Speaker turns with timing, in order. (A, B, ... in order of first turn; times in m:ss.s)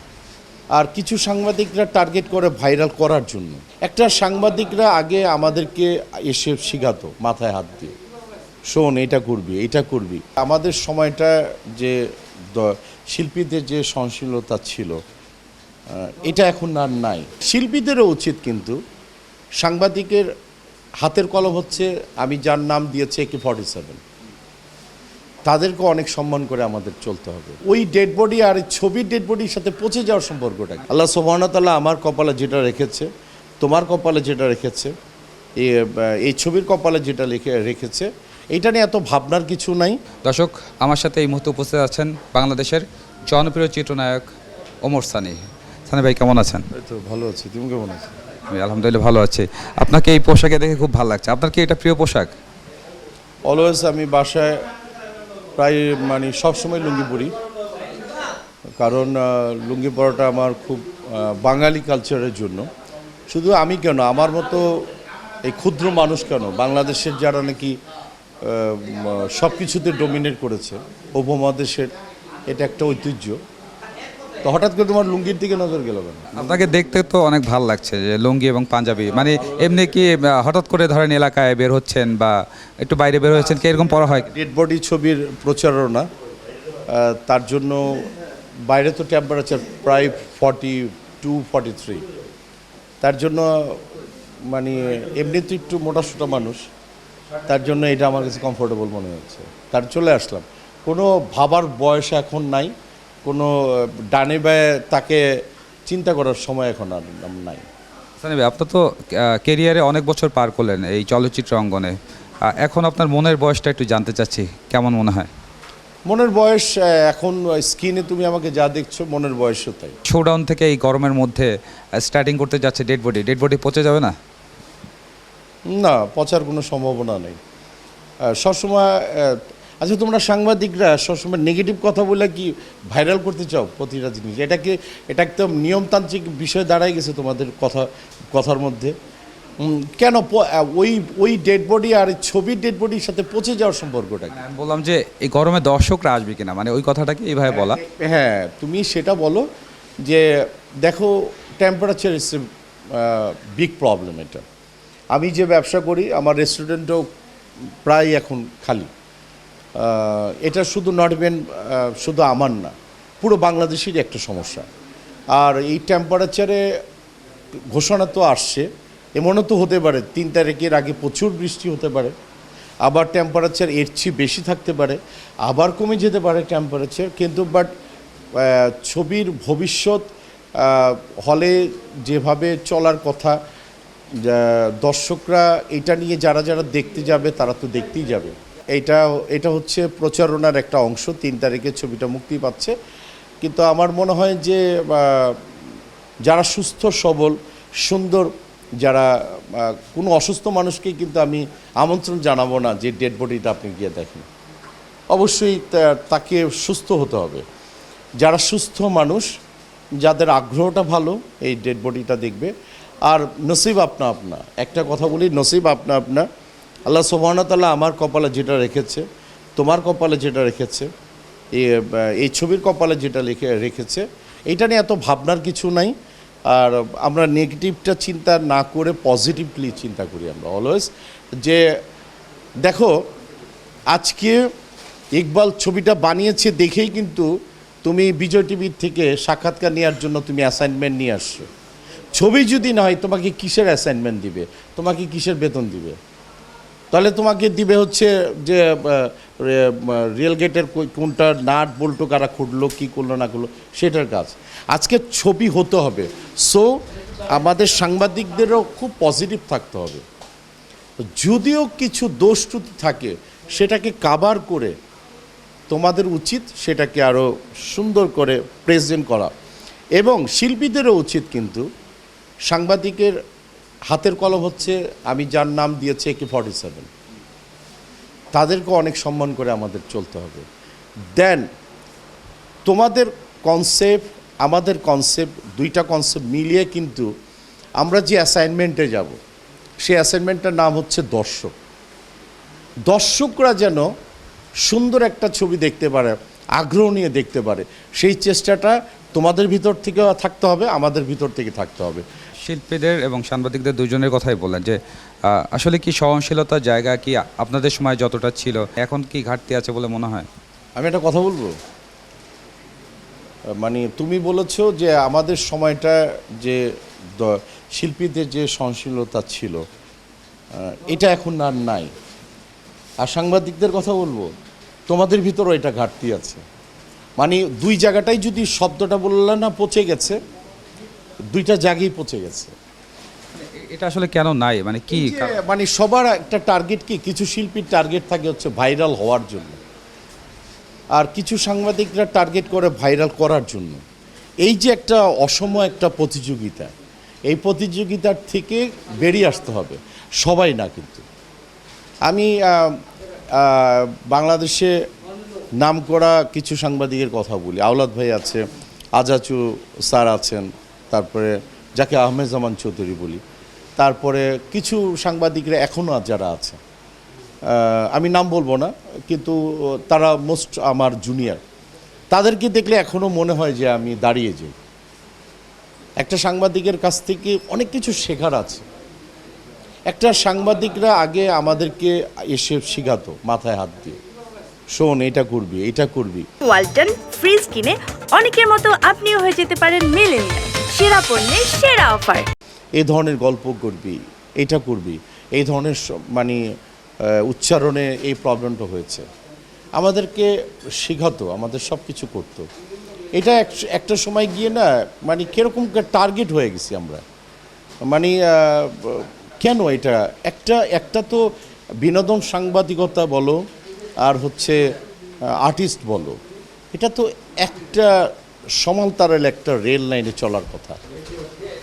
0:00.7-0:07.9 A
0:08.7-0:12.0 A
0:12.5-0:15.0 A
0:15.9-0:18.8 A
0:19.6-0:20.3 A
0:21.0-0:24.0 A
0:25.4-0:33.1 A
0:33.6-0:34.9 A
0:35.6-0:40.0 A
0:40.2-0:44.2 B
0:44.8-0:46.6 B
0:46.7-0:48.1 A
0:48.5-0:52.3 B
0:53.4-0:54.6 A
0:55.6-0:57.3 A
0:58.8-1:02.7 A
1:03.3-1:04.7 A
1:05.4-1:07.7 A
1:08.4-1:11.9 A
1:12.5-1:13.4 A
1:14.4-1:16.6 A
1:16.3-1:24.3 B
1:24.3-1:26.0 A
1:26.9-1:28.0 A
1:28.7-1:32.0 A
1:33.0-1:33.8 A
1:34.5-1:36.7 A
1:37.5-1:42.7 A
1:43.2-1:45.2 A
1:45.8-1:47.6 A
1:48.2-1:55.3 B
1:56.1-2:00.0 A
2:00.0-2:04.1 B
2:05.7-2:07.4 A
2:08.3-2:18.9 A
2:19.6-2:24.4 A
2:24.3-2:27.8 B
2:27.5-2:29.5 A
2:30.0-2:34.4 A
2:35.1-2:37.0 A
2:37.8-2:38.9 A
2:39.8-2:44.6 A
2:45.3-2:46.6 A
2:47.7-2:52.1 A
2:52.8-2:57.7 A
2:58.3-3:03.4 A
3:04.2-3:12.7 A
3:13.4-3:15.4 A
3:16.2-3:18.3 A
3:18.8-3:24.3 A
3:25.1-3:27.4 A
3:28.2-3:29.3 A
3:30.0-3:32.5 A
3:33.1-3:36.3 A
3:36.9-3:39.0 A
3:39.6-3:40.9 A
3:41.5-3:45.9 A
3:46.5-3:50.9 A
3:52.6-3:53.0 A
3:53.9-3:54.4 A
3:55.2-3:57.3 A
3:57.8-4:01.5 A
4:02.1-4:06.0 A
4:06.9-4:16.8 A
4:17.3-4:20.0 A
4:21.2-4:24.7 A
4:25.7-4:29.3 A
4:30.0-4:31.6 A
4:32.5-4:33.1 A
4:33.9-4:36.9 A
4:38.3-4:40.4 A
4:41.1-4:41.4 A
4:42.6-4:47.1 A
4:47.8-4:49.2 A
4:49.8-4:51.5 A
4:52.9-4:53.9 A
4:54.6-5:02.0 A
5:02.4-5:04.8 B
5:05.3-5:10.3 B
5:10.8-5:11.6 A
5:13.6-5:19.6 A
5:20.5-5:21.9 A
5:23.0-5:24.3 A
5:24.9-5:26.4 A
5:27.2-5:30.2 A
5:31.3-5:32.5 A
5:33.3-5:35.4 B
5:34.9-5:39.6 A
5:40.9-5:43.8 A
5:44.4-5:46.7 A
5:47.3-5:51.0 A
5:52.1-5:52.8 A
5:53.3-5:54.7 A
5:55.6-5:58.4 A
5:59.0-6:03.2 A
6:03.8-6:06.6 A
6:07.5-6:11.4 A
6:12.1-6:14.5 A
6:16.0-6:18.6 A
6:19.9-6:24.0 A
6:24.7-6:26.2 A
6:26.4-6:32.3 C
6:32.8-6:36.4 A
6:37.0-6:39.1 A
6:39.8-6:42.4 A
6:43.1-6:47.0 A
6:47.8-6:51.3 A
6:51.8-6:53.4 A
6:54.0-6:54.6 A
6:55.3-6:56.2 A
6:56.7-6:58.1 A
6:58.6-7:00.8 A